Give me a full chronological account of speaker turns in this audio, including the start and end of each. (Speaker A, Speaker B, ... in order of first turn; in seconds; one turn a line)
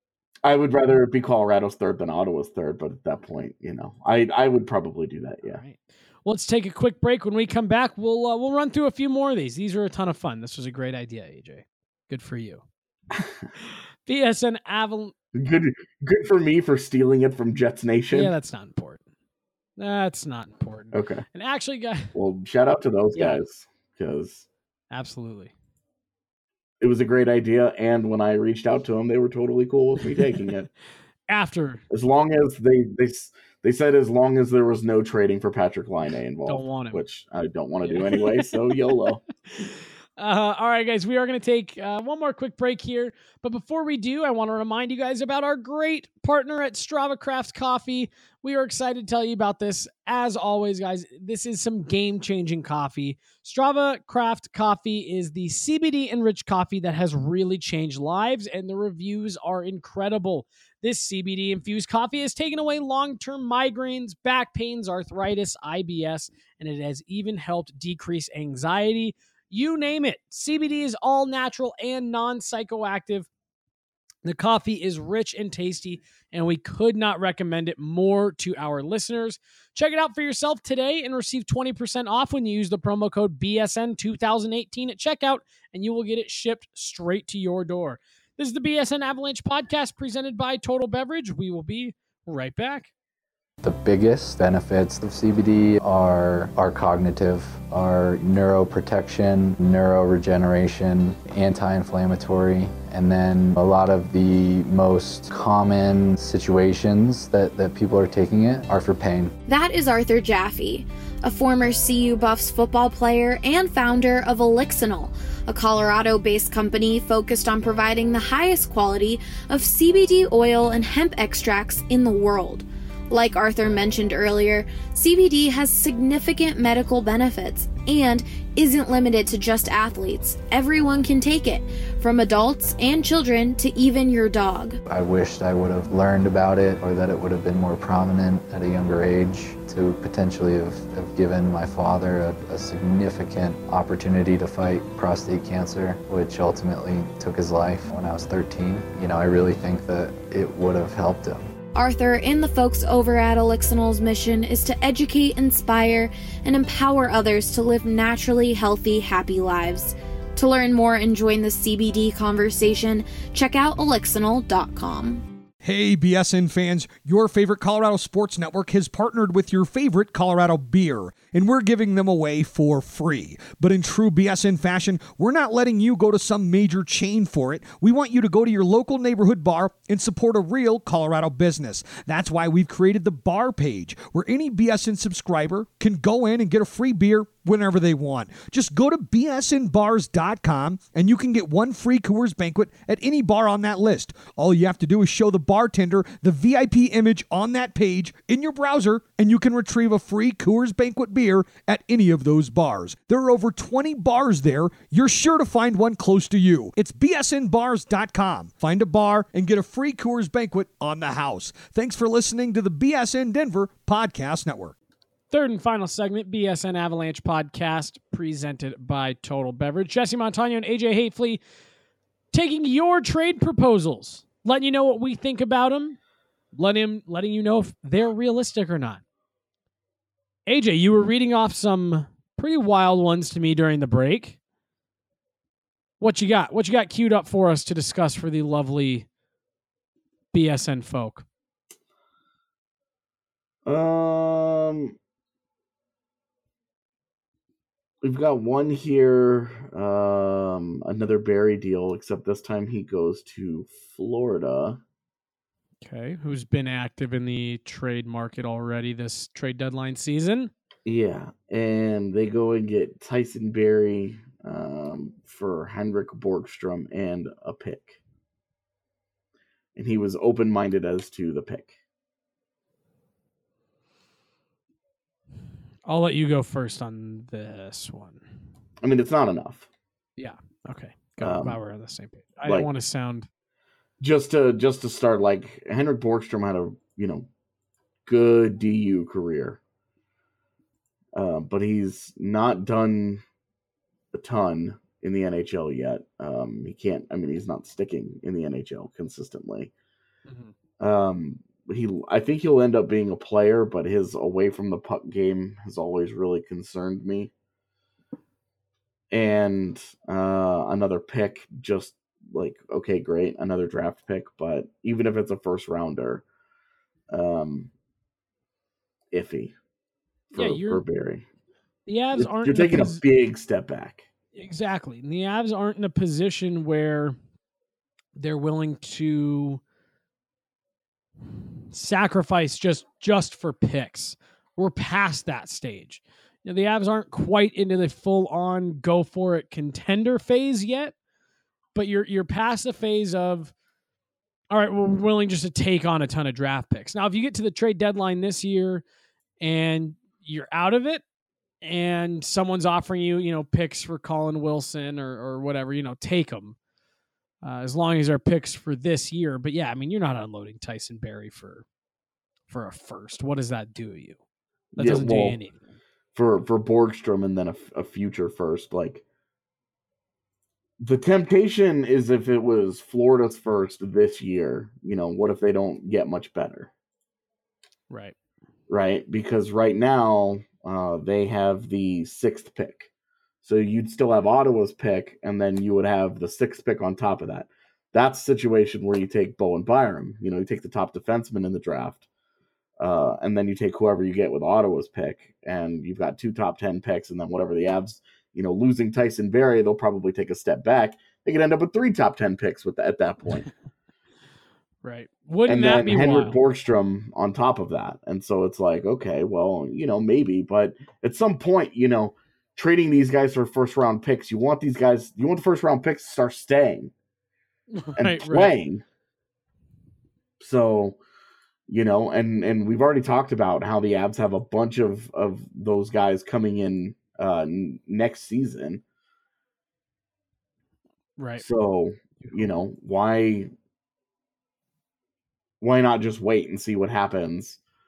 Speaker A: 0.4-5.6
Speaker B: 5.5-12.6
Speaker A: 13.1-13.4
Speaker B: 14.1-15.1
Speaker A: 15.3-18.3
Speaker B: 18.1-19.0
Speaker B: 19.8-22.1
Speaker A: 20.9-21.2
Speaker A: 22.1-24.5
Speaker B: 23.1-23.4
Speaker B: 24.9-25.5
Speaker A: 26.8-30.7
Speaker B: 31.3-31.8
Speaker A: 31.9-39.2
Speaker B: 36.5-37.0
Speaker B: 37.8-38.6
Speaker B: 39.6-73.3
Speaker B: 74.2-92.9
Speaker C: 93.6-109.3
Speaker D: 109.5-134.8
Speaker C: 134.9-151.4
Speaker D: 151.7-165.2
Speaker E: 165.6-214.7
Speaker B: 215.3-221.4
Speaker B: 222.3-226.0
Speaker B: 226.5-229.0
Speaker B: 230.4-234.4
Speaker B: 236.0-239.1
Speaker B: 240.3-241.2
Speaker A: 243.6-244.9
Speaker A: 248.0-254.8
Speaker B: 255.8-260.5
Speaker A: 260.8-268.0
Speaker A: 269.7-271.8
Speaker B: 275.9-278.2
Speaker A: 278.8-279.7
Speaker B: 280.2-283.3
Speaker A: 281.2-281.6
Speaker A: 282.4-282.7
Speaker A: 284.0-287.3
Speaker A: 288.1-289.6
Speaker A: 291.1-293.2
Speaker A: 294.1-299.7
Speaker B: 300.3-300.5
Speaker A: 300.8-307.3
Speaker A: 309.1-316.2
Speaker A: 317.1-317.7
Speaker A: 319.1-319.5
Speaker A: 320.3-321.2
Speaker B: 320.3-320.8
Speaker B: 321.9-323.0
Speaker A: 322.2-324.1
Speaker B: 324.3-327.1
Speaker B: 328.1-329.6
Speaker B: 331.7-340.9
Speaker B: 341.7-343.5
Speaker B: 344.5-348.8
Speaker B: 349.4-351.0
Speaker B: 351.6-356.6
Speaker B: 357.4-361.6
Speaker B: 362.5-364.2
Speaker A: 364.8-365.4
Speaker B: 364.8-365.5
Speaker A: 366.1-369.0
Speaker A: 370.8-376.7
Speaker B: 377.9-378.1
Speaker A: 378.7-382.9
Speaker A: 383.4-392.1
Speaker A: 392.8-403.5
Speaker B: 404.8-406.4
Speaker A: 405.5-416.9
Speaker B: 417.7-418.6
Speaker A: 417.9-418.8
Speaker A: 420.4-421.0
Speaker A: 421.7-428.8
Speaker B: 431.2-431.4
Speaker A: 431.4-433.5
Speaker A: 435.6-437.6